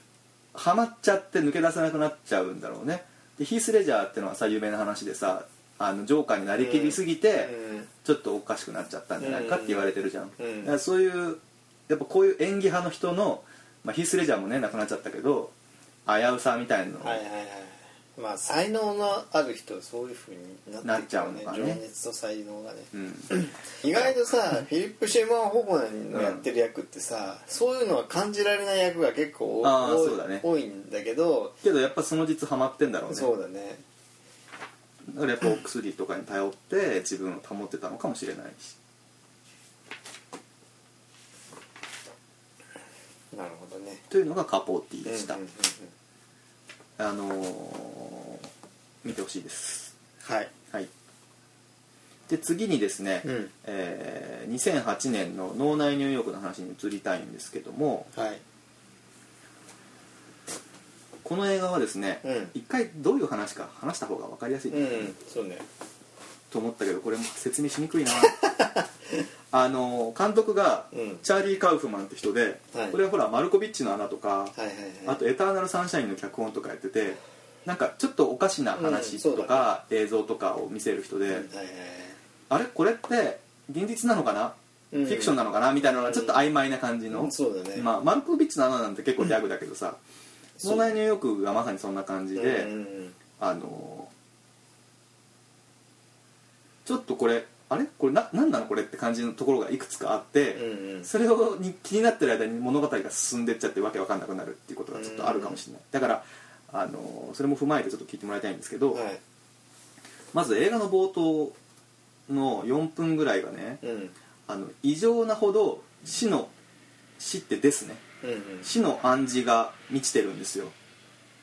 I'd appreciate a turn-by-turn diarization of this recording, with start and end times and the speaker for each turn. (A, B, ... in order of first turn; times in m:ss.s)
0:00.5-0:07.5 A
0:06.6-0:07.9 B
0:08.0-0:15.5 A
0:09.2-0:10.8 B
0:16.0-0:17.2 A
0:17.0-0:31.6 B
0:20.8-0:21.8 A
0:22.9-0:23.3 A
0:23.8-0:24.1 A
0:26.1-0:26.4 A
0:29.6-0:30.4 A
0:31.6-0:33.3 A
0:33.1-0:33.8 B
0:35.1-0:38.8 A
0:43.3-0:44.0 B
0:44.1-0:45.4 A
0:45.0-0:45.9 B
0:47.0-0:48.4 A
0:49.0-0:49.9 A
0:50.2-0:50.5 B
0:52.3-0:58.1 A
0:53.2-0:53.5 B
0:58.1-0:58.4 B
1:01.2-1:05.1 A
1:02.2-1:02.5 B
1:04.7-1:05.6 B
1:06.5-1:08.4 A
1:08.1-1:08.9 B
1:09.5-1:14.5 A
1:10.9-1:11.2 B
1:12.7-1:13.0 B
1:14.6-1:15.2 B
1:15.0-1:21.5 A
1:18.7-1:19.8 B
1:21.3-1:22.2 B
1:22.5-1:30.0 A
1:24.9-1:26.4 B
1:27.1-1:27.9 B
1:30.6-1:31.0 B
1:30.6-1:32.7 A
1:32.3-1:33.2 B
1:33.4-1:34.1 A
1:36.8-1:49.0 A
1:40.5-1:41.1 B
1:44.9-1:45.6 B
1:48.9-1:49.2 B
1:50.3-1:51.6 A
1:52.3-1:53.8 A
1:53.8-1:54.1 B
1:54.5-1:56.5 A
1:57.2-1:58.0 A
1:58.2-1:58.7 B
1:58.6-2:00.7 A